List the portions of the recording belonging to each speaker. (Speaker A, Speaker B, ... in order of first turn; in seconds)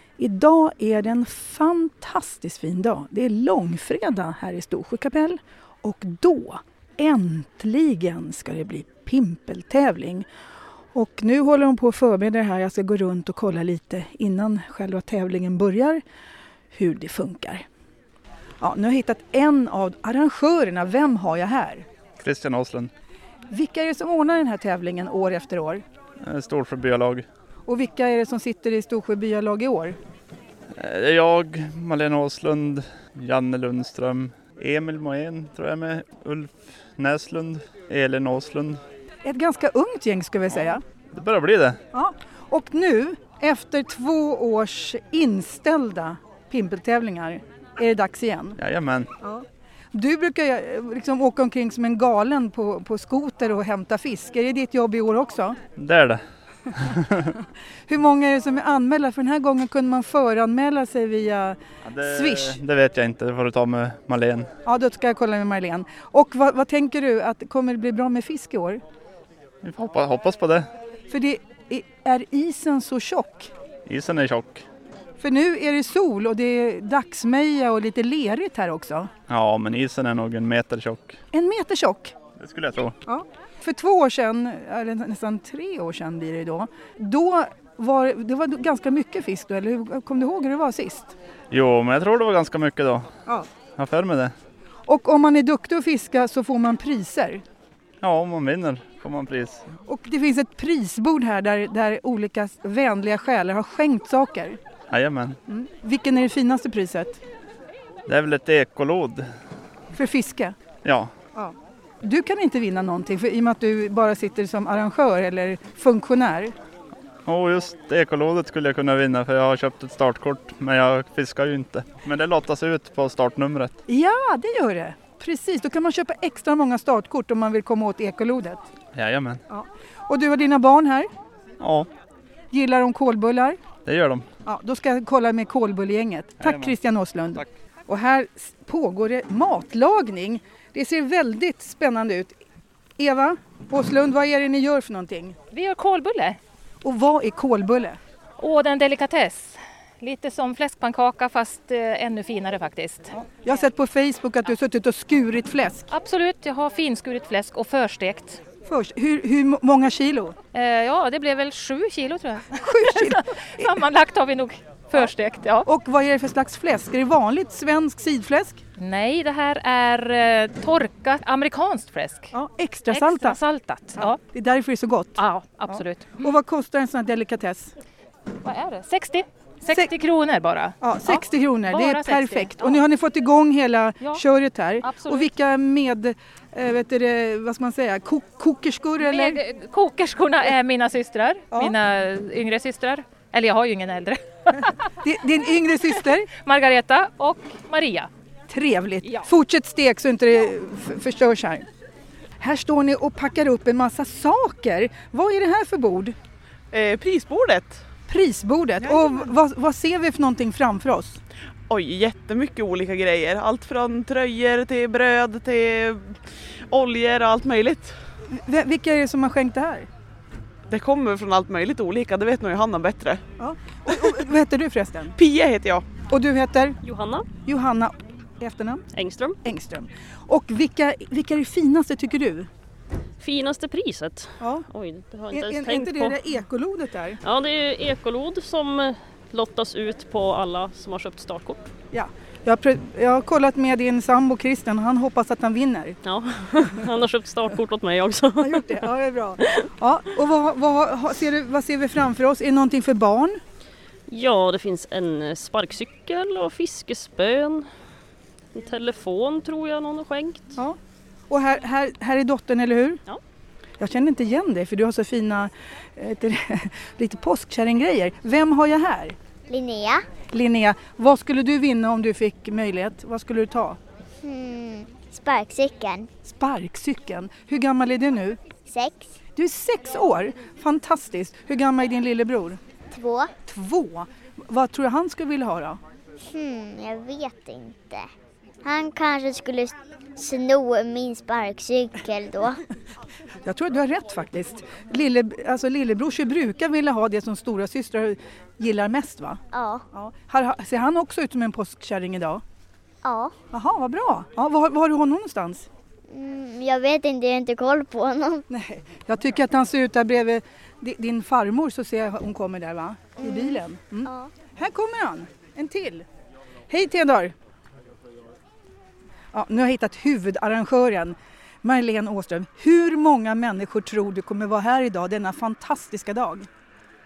Speaker A: 0.2-10.3, 10.9-16.0, 16.7-17.6, 18.6-21.9, 23.5-25.8, 27.7-30.0, 39.2-40.8, 41.9-48.6, 49.2-55.6, 57.9-62.6, 64.7-68.8, 71.1-73.5, 75.2-79.1, 81.3-82.1, 83.0-91.1, 94.9-97.4, 99.9-104.6, 105.5-107.2, 109.9-110.5, 111.3-116.5, 123.9-128.6, 129.5-131.1, 132.5-133.6, 134.4-142.4, 143.0-145.3, 146.8-148.0, 153.2-155.9, 158.7-160.3, 162.6-163.8, 165.6-168.6, 172.3-173.4, 173.9-177.7, 180.8-189.4, 195.0-196.3, 198.5-201.7, 202.4-206.1, 208.1-211.2, 218.3-219.9, 223.4-225.1, 226.1-226.8, 227.4-228.8, 229.4-232.5, 234.4-234.6, 235.3-237.2, 241.9-246.0, 248.4-253.4, 261.3-263.0, 263.8-269.1, 270.3-273.8, 276.2-278.4, 279.4-282.6, 283.4-285.8, 293.4-299.4, 299.9-302.4, 303.5-305.7, 308.5-316.0, 316.7-317.3, 319.3-326.5
Speaker B: 22.2-22.9, 26.2-27.2, 30.7-38.8, 41.1-41.8, 48.6-49.1, 55.8-56.2, 56.7-57.3, 61.8-64.5, 69.6-70.7, 73.9-74.6, 79.3-81.2, 82.4-83.0, 91.5-93.1, 93.8-94.3, 98.0-99.7, 104.9-105.4, 108.1-109.3, 110.8-111.1, 117.2-123.7, 128.9-129.4, 131.6-131.9, 133.8-134.2, 136.4-136.7
Speaker C: 145.5-146.4, 148.4-153.1, 155.9-158.4, 160.5-165.7, 168.8-172.3, 172.9-174.2, 175.2-176.3, 178.4-182.8, 184.8-185.3, 189.0-194.8, 196.3-198.1, 199.0-199.3
Speaker D: 206.7-207.8, 211.7-217.9, 220.7-223.2, 225.2-225.8
Speaker E: 226.8-227.2, 228.9-229.4, 233.2-236.2, 237.2-241.6, 246.0-248.7, 254.1-257.7, 258.5-260.6
Speaker F: 269.5-270.0, 274.2-276.1, 278.6-279.1, 282.9-283.3, 286.2-288.1, 288.6-292.6, 299.5-299.8, 303.0-303.3, 306.1-308.4, 313.2-314.3